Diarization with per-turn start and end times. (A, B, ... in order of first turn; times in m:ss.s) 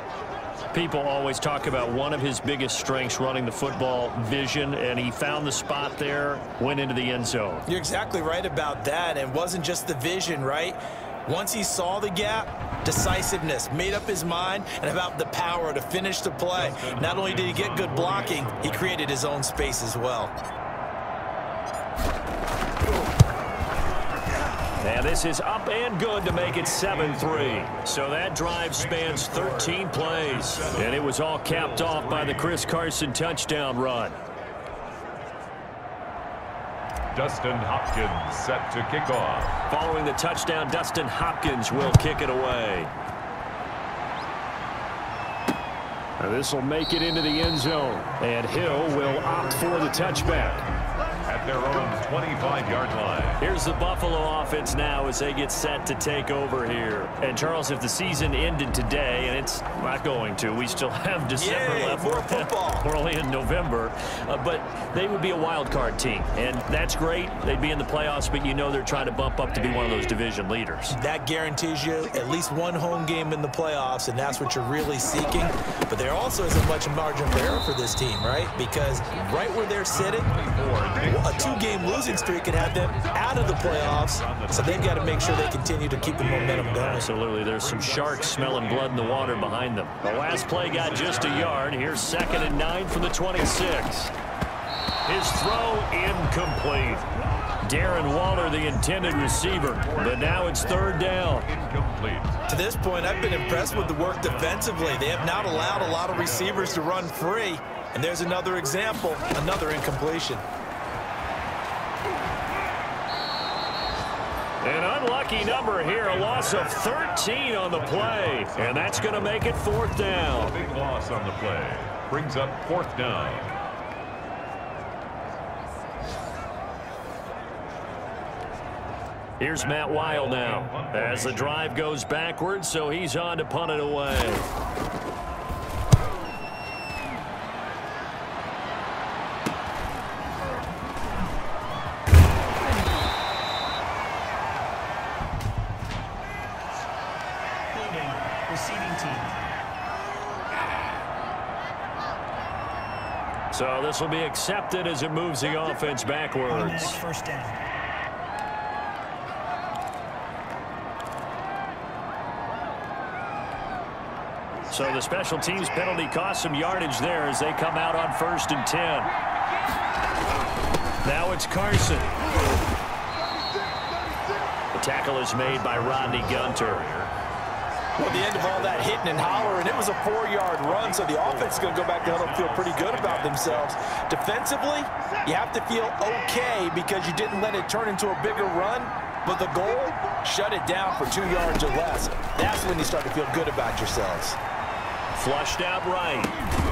0:00.7-0:07.6 A
0:07.6-0:20.3 B
0:16.5-0:19.0 C
0:24.8-0:34.2 A
0:26.4-0:27.8 C
0:28.6-0:32.7 C
0:37.1-0:39.6 C
0:39.7-0:42.9 A
0:46.2-0:50.6 A
0:48.8-0:50.4 C
0:51.3-0:53.4 C
0:53.4-1:11.0 A
1:01.4-1:02.9 B
1:10.9-1:20.3 B
1:19.9-1:22.5 C
1:21.0-1:27.1 B
1:23.1-1:25.2 C
1:26.0-1:31.8 C
1:26.8-1:34.1 A
1:35.0-1:37.1 A
1:37.6-1:41.5 A
1:39.0-1:42.4 C
1:42.5-1:50.4 B
1:43.2-1:47.1 C
1:54.6-2:00.6 A
1:55.9-1:59.5 C
2:00.2-2:03.5 C
2:09.4-2:14.5 A
2:09.6-2:11.7 C
2:27.7-2:29.4 D
2:33.5-2:37.0 A
2:36.5-2:37.6 D
2:44.7-2:49.1 A
2:51.0-2:52.1 A
2:54.7-2:56.8 A
2:55.4-2:57.1 C
2:58.0-3:14.4 B
2:58.0-3:03.8 C
3:15.1-3:16.4 A